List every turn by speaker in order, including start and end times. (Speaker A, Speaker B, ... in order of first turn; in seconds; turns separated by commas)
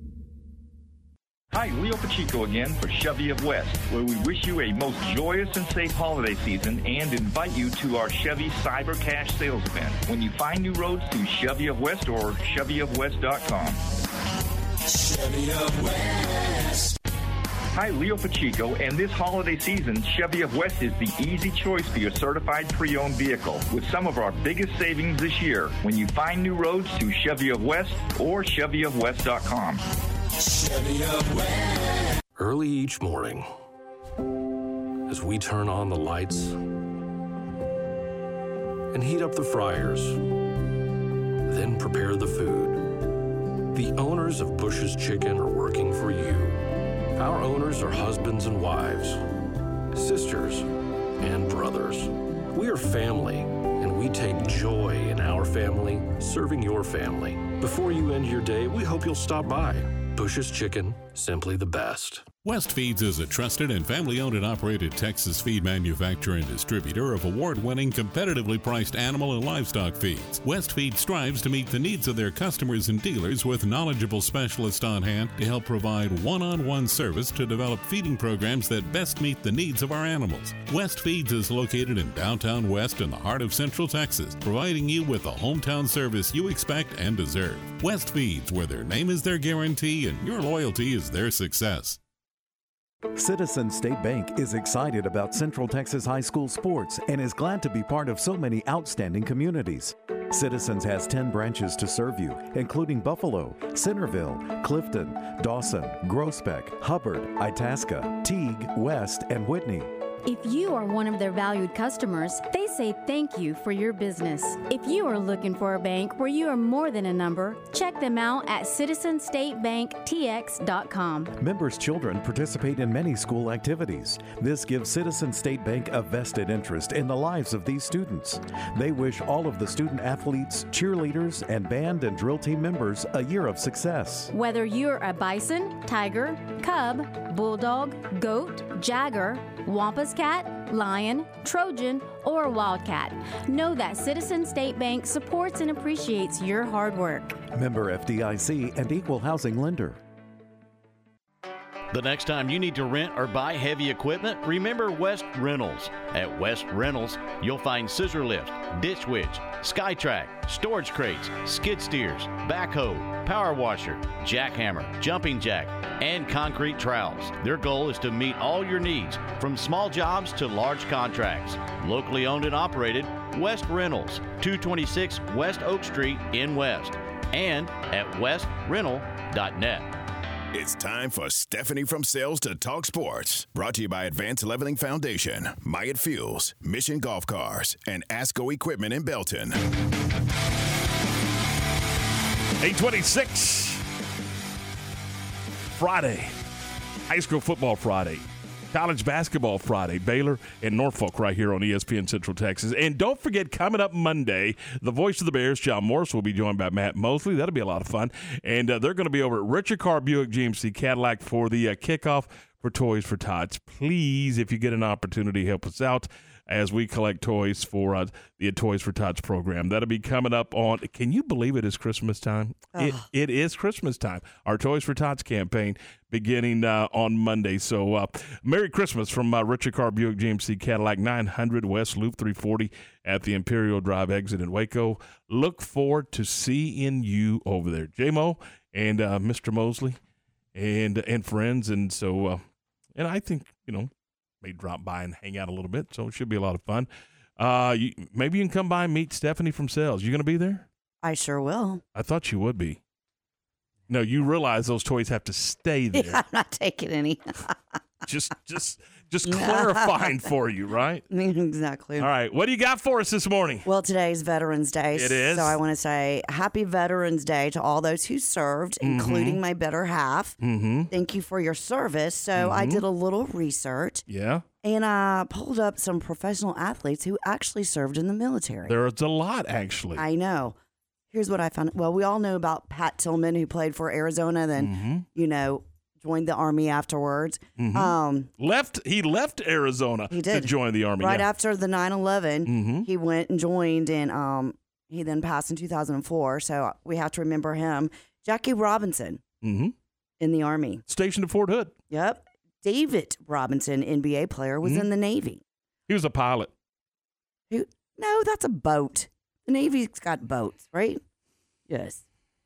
Speaker A: 1.6-13.7, Speaker A: 17.8-29.8, Speaker B: 32.4-33.5, Speaker B: 35.1-36.6, Speaker B: 38.9-40.2, Speaker B: 41.4-42.9, Speaker B: 43.7-46.6, Speaker B: 47.2-49.2, Speaker B: 49.9-50.7, Speaker B: 51.2-62.4, Speaker C: 62.4-92.0, Speaker D: 93.2-109.9, Speaker E: 110.2-121.3, Speaker D: 121.4-134.3, Speaker E: 134.3-147.3, Speaker D: 147.5-150.0, Speaker F: 151.9-179.9, Speaker G: 180.5-189.6, Speaker H: 192.6-193.8, Speaker H: 195.8-196.3, Speaker H: 197.1-240.0, Speaker I: 222.7-223.0, Speaker H: 240.5-242.4, Speaker H: 242.9-243.9, Speaker H: 244.4-250.7, Speaker I: 251.0-251.8, Speaker H: 251.9-252.8, Speaker H: 253.9-256.2, Speaker I: 255.9-257.2, Speaker H: 258.1-261.0, Speaker I: 259.2-260.2, Speaker I: 261.1-262.1, Speaker H: 262.0-263.6, Speaker I: 263.6-270.4, Speaker H: 264.9-265.6, Speaker H: 268.8-269.4, Speaker H: 270.4-270.9, Speaker I: 270.9-274.0, Speaker H: 272.3-272.8, Speaker H: 274.1-274.4, Speaker I: 274.6-278.8, Speaker H: 278.6-280.0, Speaker I: 279.9-280.5, Speaker I: 281.1-288.3, Speaker H: 284.6-285.0, Speaker H: 287.6-291.3, Speaker I: 290.1-299.2, Speaker H: 292.4-292.9, Speaker H: 299.4-299.7, Speaker I: 300.2-300.8, Speaker H: 300.9-301.7, Speaker I: 301.9-305.4, Speaker H: 304.6-304.9, Speaker H: 305.9-306.5, Speaker I: 307.5-311.0, Speaker I: 311.7-312.0